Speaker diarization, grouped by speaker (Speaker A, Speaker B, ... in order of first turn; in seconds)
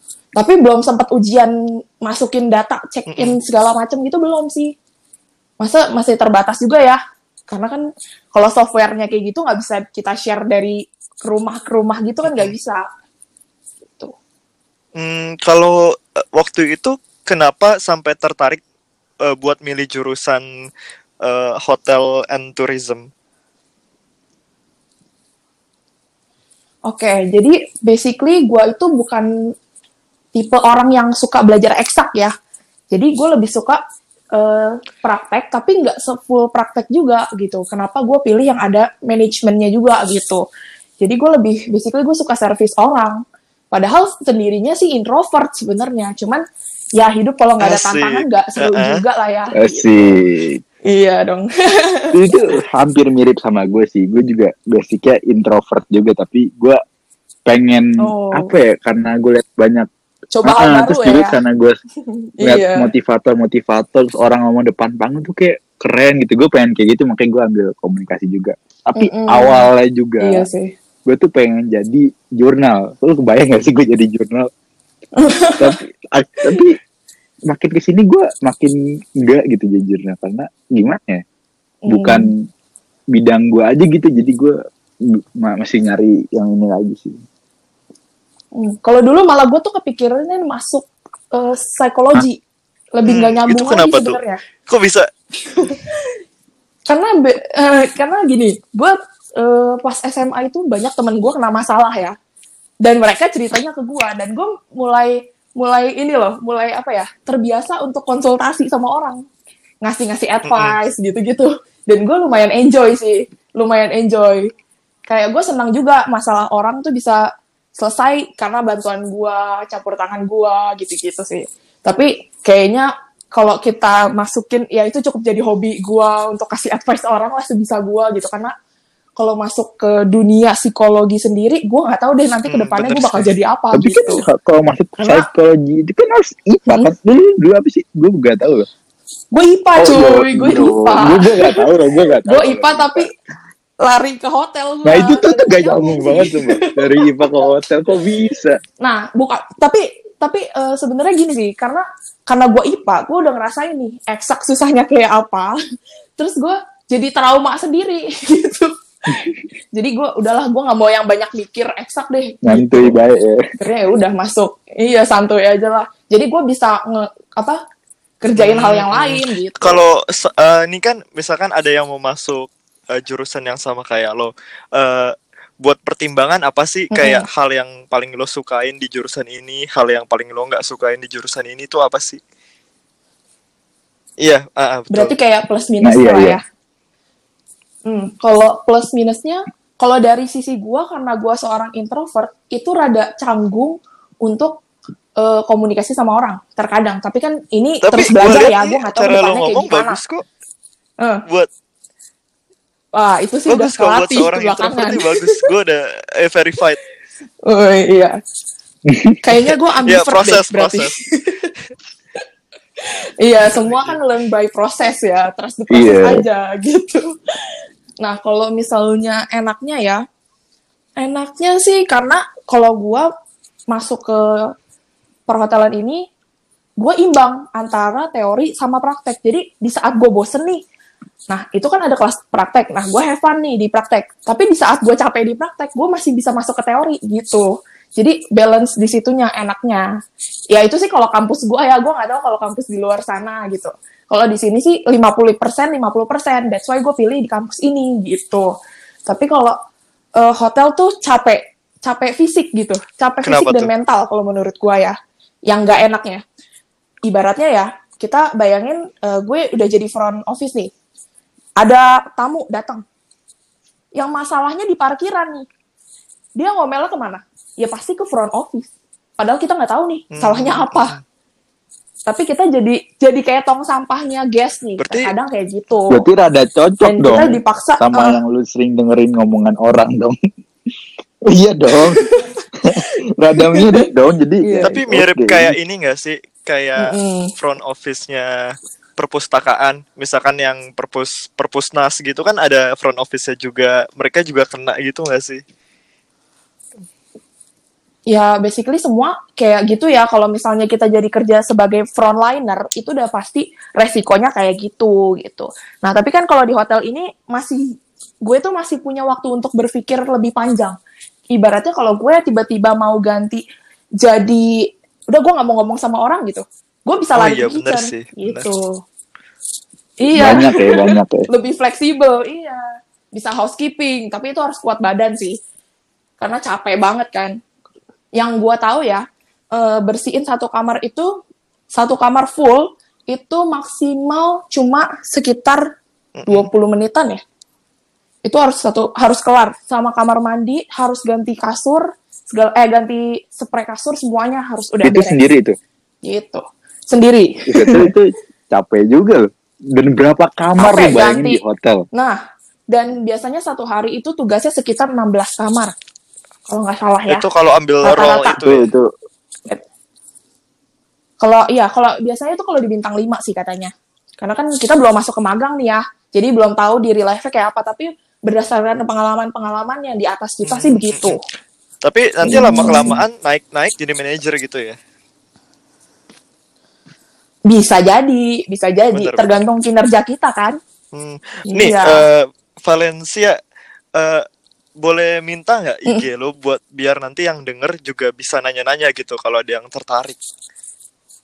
Speaker A: 0.3-4.7, 5.6-12.8, 26.9-29.3, 30.3-32.3, 32.9-33.8, 34.3-40.4, 41.0-46.4, 47.0-50.1, 50.9-52.1, 58.0-58.5, 60.3-61.4, 62.1-62.9, 69.0-69.7, 70.2-70.7, 75.2-75.7, 81.8-82.3, 88.5-92.4, 92.9-94.4, 95.5-95.8, 96.9-102.2, 102.8-109.2, 109.8-114.5, 115.1-117.2, 117.8-128.5, 129.2-134.2, 135.0-135.3, 139.3-141.6, 142.2-143.1, 143.8-147.1, 148.8-155.6, 156.2-158.7, 159.7-163.0, 163.6-167.6, 168.2-169.8, 176.9-177.2, 184.9-186.4, 187.8-194.6, 195.2-200.0, 202.9-205.4, 207.4-208.2, 209.2-211.5, 213.2-217.1, 218.0-220.0, 221.0-223.1, 223.7-224.5, 225.3-226.1, 226.8-230.6, 231.3-239.9, 240.5-248.5, 249.1-249.6, 250.2-256.2, 257.0-260.7, 261.6-262.8, 263.9-265.5, 266.4-270.9, 272.1-276.0, 276.8-278.2, 282.0-282.4, 283.5-283.9, 284.4-284.8, 286.8-287.3, 298.1-310.8, 311.3-313.4, 314.0-318.8, 320.0-325.4, 326.2-327.4, 328.1-331.1, 331.7-335.7, 336.3-337.2, 338.2-345.2, 346.0-347.9, 350.6-355.7, 356.5-357.3, 357.8-358.4, 361.2-371.2, 372.3-372.9, 377.5-380.6, 381.5-382.0
Speaker B: 3.1-3.4, 12.2-12.5, 14.9-15.8, 16.4-18.6, 19.2-20.4, 21.2-23.1, 47.6-49.0, 93.0-95.1, 110.4-110.8, 132.5-133.3, 168.3-182.2, 184.2-185.1, 197.8-200.2, 203.5-206.8, 209.8-210.9, 213.4-214.0, 253.2-253.7, 270.1-271.0, 274.8-275.1, 284.6-288.3, 289.0-295.4, 317.1-318.5, 336.2-336.5, 357.1-358.7, 370.4-371.2, 371.8-374.8, 378.9-379.3, 380.9-383.4, 384.0-384.2, 384.8-390.2
Speaker C: 49.5-50.6, 52.1-56.8, 57.5-59.9, 60.4-61.8, 62.4-70.5, 71.0-74.5, 75.6-76.7, 77.5-81.2, 81.9-82.3, 83.1-84.5, 85.4-87.2, 133.7-138.7, 139.8-143.1, 144.8-148.6, 162.4-163.4, 185.8-186.4, 208.9-209.2, 215.7-216.2, 275.9-280.1, 281.3-282.0, 282.7-285.5, 320.1-321.2, 344.8-345.6, 347.5-351.9, 358.4-358.9, 372.2-373.0